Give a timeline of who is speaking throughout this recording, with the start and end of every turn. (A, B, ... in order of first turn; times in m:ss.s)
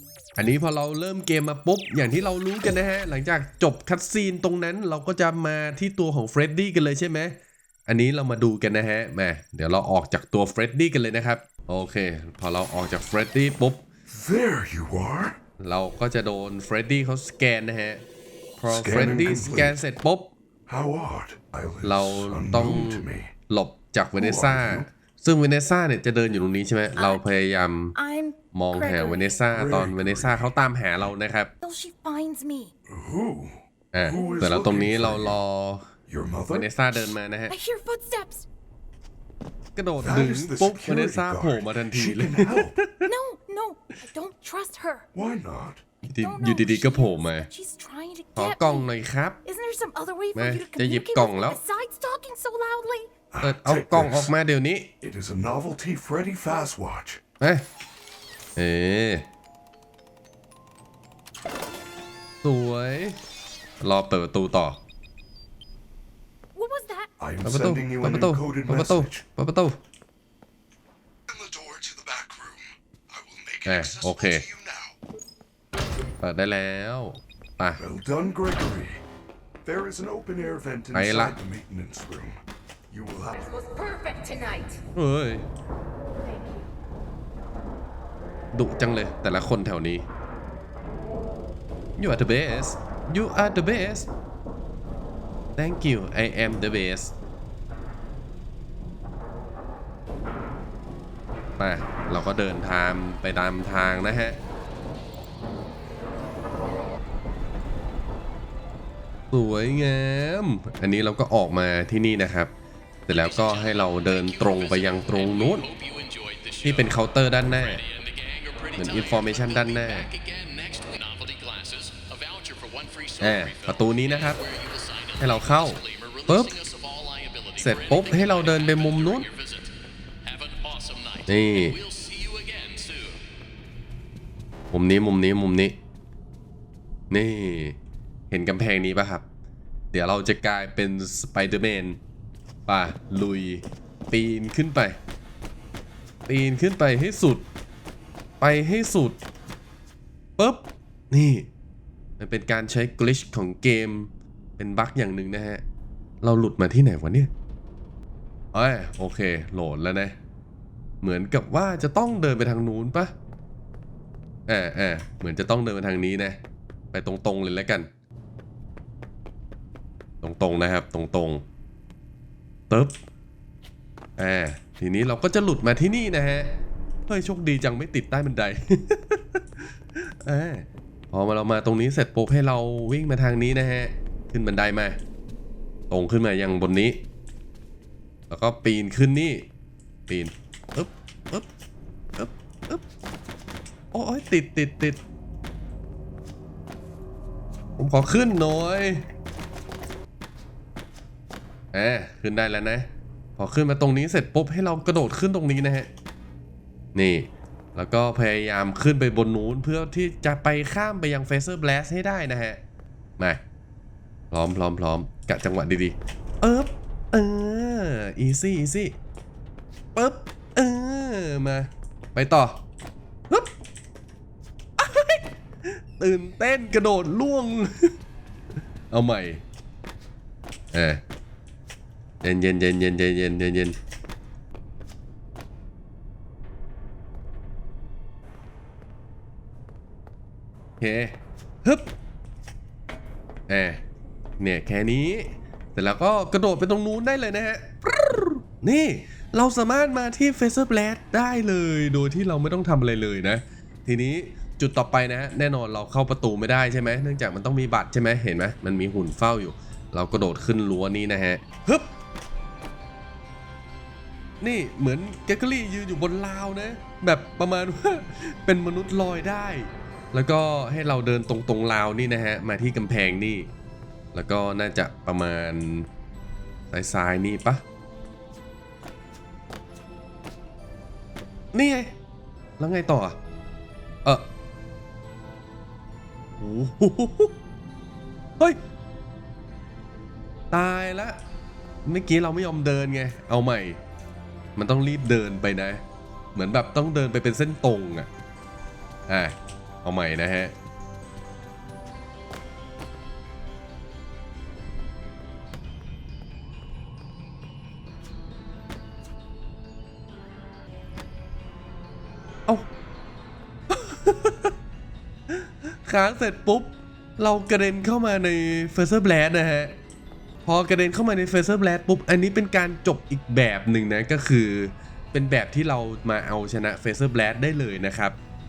0:00.4-0:13.8 A
0:14.1-0:15.4 B
0:15.6-0:18.0 A
0:18.6-0:20.3 A
0:18.7-0:19.8 B
0:20.7-0:23.3 B
0:21.8-0:27.9 A
0:24.1-0:24.9 B
0:27.0-0:27.3 C
0:27.9-0:29.4 C
0:28.5-0:31.5 A
0:29.5-0:30.6 B
0:31.6-0:32.7 C
0:32.9-0:35.4 B
0:33.9-0:35.9 A
0:34.1-0:34.4 C
0:36.1-0:36.7 B
0:36.5-0:37.5 A
0:37.5-0:38.4 C
0:39.7-0:43.1 A
0:40.0-0:42.8 B
0:43.0-0:45.0 C
0:45.1-0:45.8 B
0:46.1-0:47.5 A
0:46.2-0:48.9 C
0:48.4-0:49.4 A
0:49.4-0:53.1 C
0:50.3-0:51.6 A
0:53.3-0:54.3 B
0:53.4-0:54.9 A
0:55.0-0:57.2 B
0:57.4-0:57.6 A
0:58.6-0:59.2 A
1:02.4-1:03.2 A
1:03.8-1:04.8 A
1:06.5-1:07.1 C
1:07.2-1:09.2 B
1:07.4-1:09.8 A
1:11.3-1:15.0 B
1:13.6-1:14.4 A
1:16.2-1:17.8 A
1:17.8-1:19.0 B
1:19.6-1:23.6 B
1:20.9-1:21.4 A
1:23.6-1:24.8 C
1:24.9-1:25.4 A
1:28.5-1:30.1 A
1:32.0-1:34.1 A
1:35.6-1:37.1 A
1:41.6-1:44.4 A
1:49.3-1:52.5 A
1:53.1-1:55.6 A
1:53.1-2:09.7 C
1:56.6-1:57.8 A
1:58.8-2:00.1 A
2:03.2-2:04.4 A
2:05.2-2:06.6 A
2:07.6-2:09.3 A
2:10.2-2:13.2 C
2:11.3-2:11.8 A
2:14.7-2:15.8 A
2:17.1-2:17.8 A
2:18.3-2:19.2 A
2:19.9-2:22.0 A
2:22.6-2:25.0 A
2:26.3-2:27.4 A
2:28.4-2:29.2 A
2:30.4-2:31.5 A
2:32.2-2:35.6 A
2:36.2-2:37.3 A
2:38.5-2:40.1 A
2:41.0-2:43.1 A
2:44.5-2:46.4 A
2:46.9-2:47.9 A
2:50.2-2:51.4 A
2:54.2-2:56.6 A
2:57.1-3:05.0 A
3:05.9-3:07.0 A
3:08.3-3:09.5 A
3:10.1-3:11.5 A
3:12.2-3:12.8 A
3:13.9-3:15.0 A
3:17.8-3:19.0 A
3:21.7-3:25.9 A
3:26.9-3:32.6 A
3:34.3-3:39.0 A
3:39.9-3:42.6 A
3:44.8-3:47.9 A
3:48.9-3:49.4 A
3:50.7-3:51.0 A
3:52.2-3:53.8 A
4:00.8-4:01.9 A
4:03.5-4:03.8 A
4:04.4-4:21.9 A
4:24.4-4:33.5 A
4:34.1-4:35.9 A
4:36.7-4:37.6 A
4:41.5-4:41.9 A
4:42.6-4:43.2 A
4:46.4-4:47.3 A
4:50.5-4:51.2 A
4:51.8-4:53.8 A
4:54.6-4:55.8 A
4:56.3-4:58.1 A
4:59.1-5:00.5 A
5:13.7-5:14.5 A
5:15.3-5:19.7 A
5:20.4-5:28.2 A